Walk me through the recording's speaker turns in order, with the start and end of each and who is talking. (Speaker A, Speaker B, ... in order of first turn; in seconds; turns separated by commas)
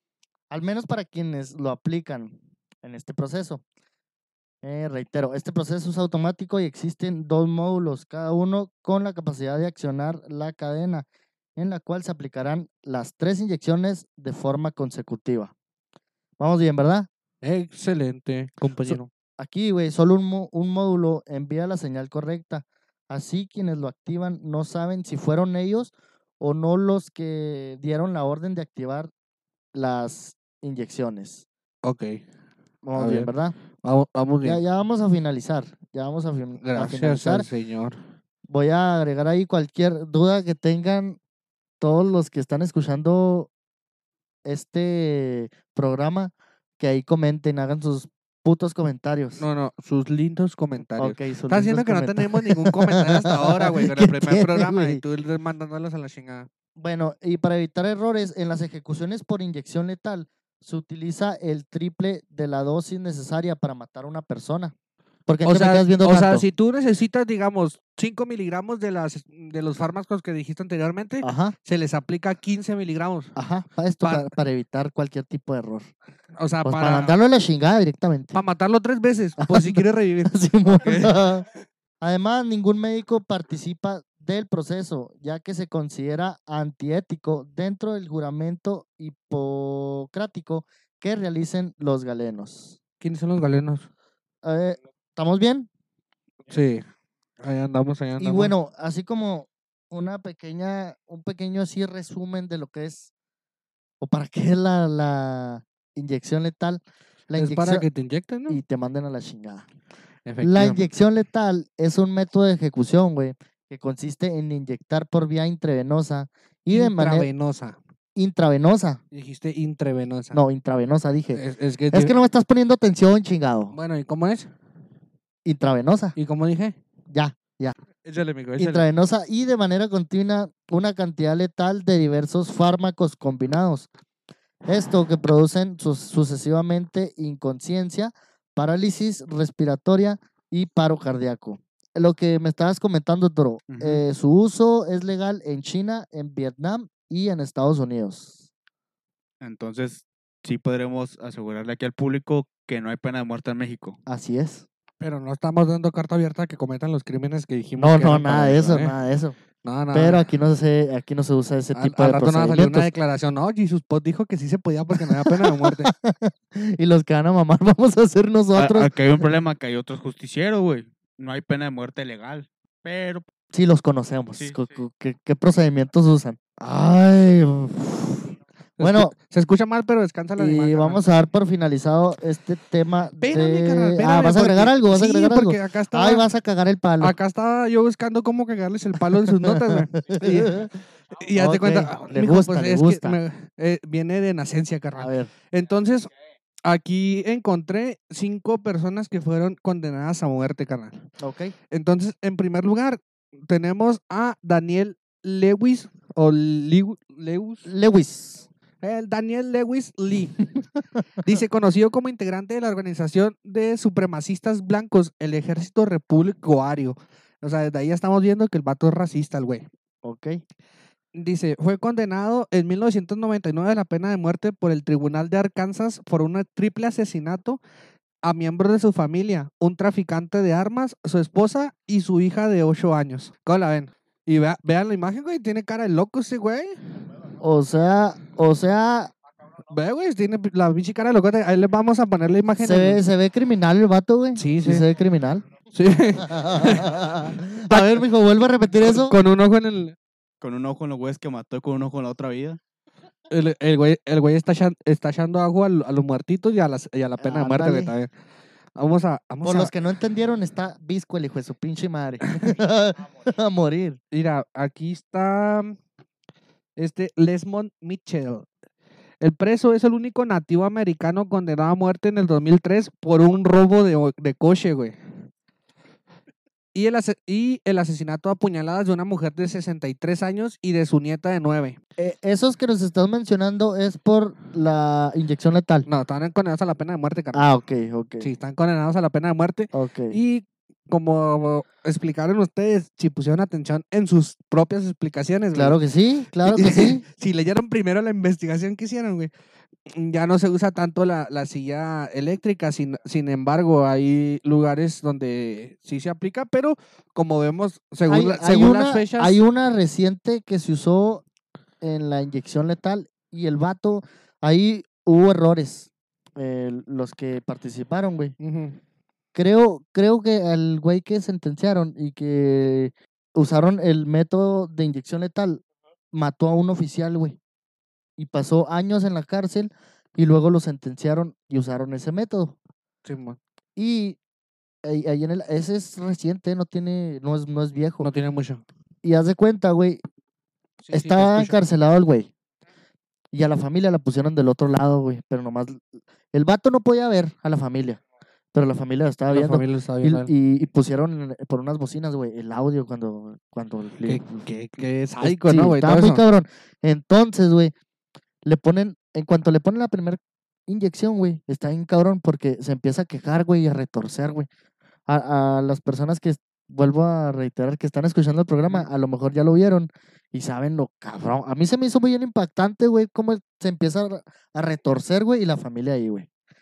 Speaker A: 0.5-3.6, Speaker A: 4.6-15.5, Speaker A: 16.4-17.1, Speaker B: 17.4-19.1, Speaker A: 18.8-29.1, Speaker A: 29.7-31.4, Speaker B: 31.8-32.2, Speaker A: 32.8-33.5, Speaker B: 33.0-33.3, Speaker B: 33.8-34.6, Speaker A: 34.4-37.5, Speaker B: 36.6-38.0, Speaker A: 38.5-41.2, Speaker A: 41.8-43.5, Speaker A: 44.4-49.4, Speaker B: 49.4-56.5, Speaker A: 51.0-55.0, Speaker A: 56.8-64.7, Speaker A: 65.2-66.4, Speaker B: 65.4-73.3, Speaker A: 71.2-71.5, Speaker A: 73.3-75.9, Speaker B: 74.0-74.3, Speaker B: 76.4-77.1, Speaker A: 76.6-78.3, Speaker B: 78.3-81.2, Speaker A: 79.4-81.5, Speaker A: 82.0-92.8, Speaker B: 93.0-93.9, Speaker A: 94.4-95.7, Speaker B: 96.5-96.9, Speaker B: 97.4-98.5, Speaker A: 98.2-103.1, Speaker A: 104.0-107.8, Speaker B: 107.3-108.6, Speaker A: 108.5-109.6, Speaker B: 110.2-110.8, Speaker A: 110.4-117.3, Speaker B: 116.7-117.8, Speaker A: 118.2-119.0, Speaker B: 119.1-120.4, Speaker A: 120.3-123.7, Speaker B: 121.3-122.1, Speaker B: 123.7-124.5, Speaker A: 125.4-126.1, Speaker B: 126.2-126.8, Speaker A: 127.1-127.7, Speaker B: 128.0-128.9, Speaker A: 128.6-133.9, Speaker A: 134.6-148.4, Speaker C: 143.7-144.0, Speaker C: 149.4-154.0, Speaker A: 154.1-154.7, Speaker B: 155.0-158.9, Speaker A: 157.8-159.3, Speaker B: 159.6-160.2, Speaker A: 159.9-162.9, Speaker B: 161.7-165.9, Speaker A: 165.0-168.9, Speaker C: 168.6-173.3, Speaker A: 173.5-179.1, Speaker C: 174.4-174.8, Speaker B: 178.8-181.0, Speaker A: 180.4-187.1, Speaker B: 183.2-186.2, Speaker B: 187.0-196.1, Speaker A: 189.3-190.7, Speaker A: 191.3-193.2, Speaker A: 195.0-195.3, Speaker B: 196.6-201.1, Speaker A: 201.2-201.5, Speaker B: 201.7-207.7, Speaker A: 207.7-208.5, Speaker B: 208.8-210.4, Speaker B: 211.2-219.7, Speaker A: 220.0-220.4, Speaker B: 221.1-227.6, Speaker B: 228.2-237.0, Speaker A: 237.4-239.1, Speaker B: 239.7-243.0, Speaker A: 242.6-245.4, Speaker B: 244.3-244.8, Speaker B: 245.7-248.0, Speaker A: 246.2-249.1, Speaker B: 248.7-249.9, Speaker C: 250.4-252.6, Speaker B: 253.3-258.1, Speaker A: 257.2-257.9, Speaker B: 258.8-259.7, Speaker A: 259.4-264.0, Speaker B: 264.1-265.8, Speaker B: 266.8-268.5, Speaker B: 269.2-275.3, Speaker B: 276.7-281.8, Speaker A: 282.0-285.9, Speaker B: 285.9-287.5, Speaker A: 287.3-288.3, Speaker B: 288.2-295.8, Speaker A: 289.7-290.2, Speaker A: 295.5-297.0, Speaker B: 296.4-299.3, Speaker B: 299.9-309.4, Speaker A: 308.1-311.2, Speaker A: 311.8-318.4, Speaker B: 318.4-318.8, Speaker A: 319.3-327.4, Speaker A: 328.2-332.6, Speaker B: 333.0-333.4, Speaker A: 333.8-334.2, Speaker A: 334.8-338.1, Speaker B: 338.0-338.6, Speaker A: 339.0-340.0, Speaker B: 340.8-341.6, Speaker A: 340.9-342.3, Speaker A: 343.3-348.0, Speaker A: 348.5-354.4, Speaker B: 349.3-350.3, Speaker B: 354.0-356.2, Speaker A: 355.2-357.7, Speaker A: 358.4-364.5, Speaker A: 365.1-376.3